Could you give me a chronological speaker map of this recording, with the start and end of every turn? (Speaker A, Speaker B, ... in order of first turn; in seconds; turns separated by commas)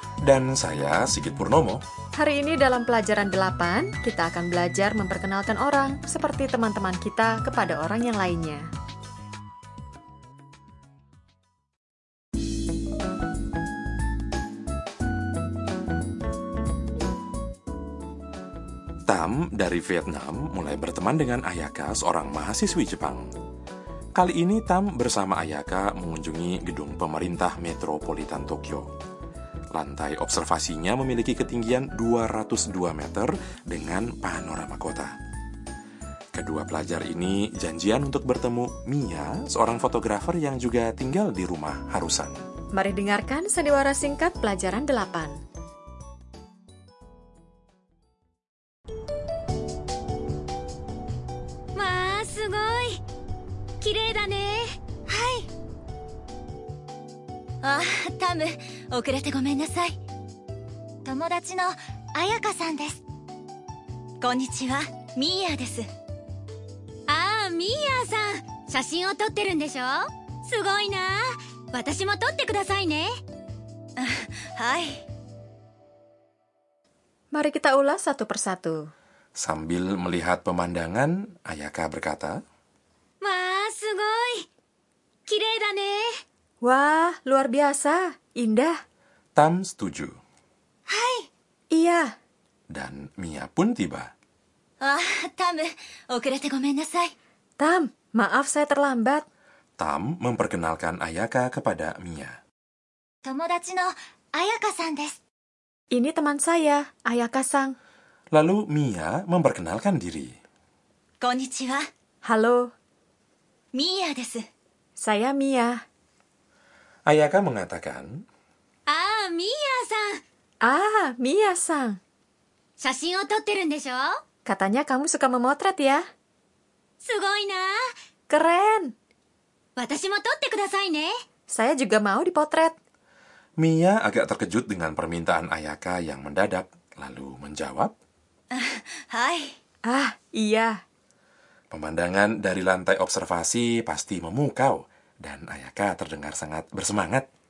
Speaker A: 0.2-1.8, Speaker B: 2.2-8.7, Speaker A: 19.1-23.3, Speaker A: 24.1-28.9, Speaker A: 29.7-35.1, Speaker A: 36.3-42.4, Speaker B: 42.7-45.4, Speaker C: 51.8-53.0, Speaker C: 53.8-55.5, Speaker C: 57.6-60.0, Speaker C: 61.0-63.0, Speaker C: 64.2-65.9, Speaker C: 67.1-73.1, Speaker C: 74.0-75.0, Speaker B: 77.3-78.9, Speaker A: 79.4-82.4, Speaker C: 83.2-84.5, Speaker C: 85.3-86.2, Speaker B: 86.6-88.8, Speaker A: 89.4-90.2, Speaker C: 90.9-91.3, Speaker B: 91.7-92.1, Speaker A: 92.7-94.1, Speaker C: 94.8-97.1, Speaker B: 97.6-99.2, Speaker A: 99.8-102.4, Speaker C: 103.2-105.2, Speaker B: 105.9-107.8, Speaker A: 108.3-110.4, Speaker C: 111.2-111.9, Speaker B: 112.2-112.7, Speaker C: 113.7-114.5, Speaker B: 115.0-115.8, Speaker A: 117.1-118.1, Speaker C: 118.9-120.2, Speaker B: 120.6-122.0, Speaker C: 122.8-124.2, Speaker B: 124.5-126.0, Speaker C: 127.0-127.8, Speaker B: 128.3-128.9, Speaker C: 129.8-131.1, Speaker B: 131.5-132.8, Speaker A: 133.6-137.9, Speaker C: 138.5-139.6, Speaker B: 139.9-140.8, Speaker A: 141.7-147.3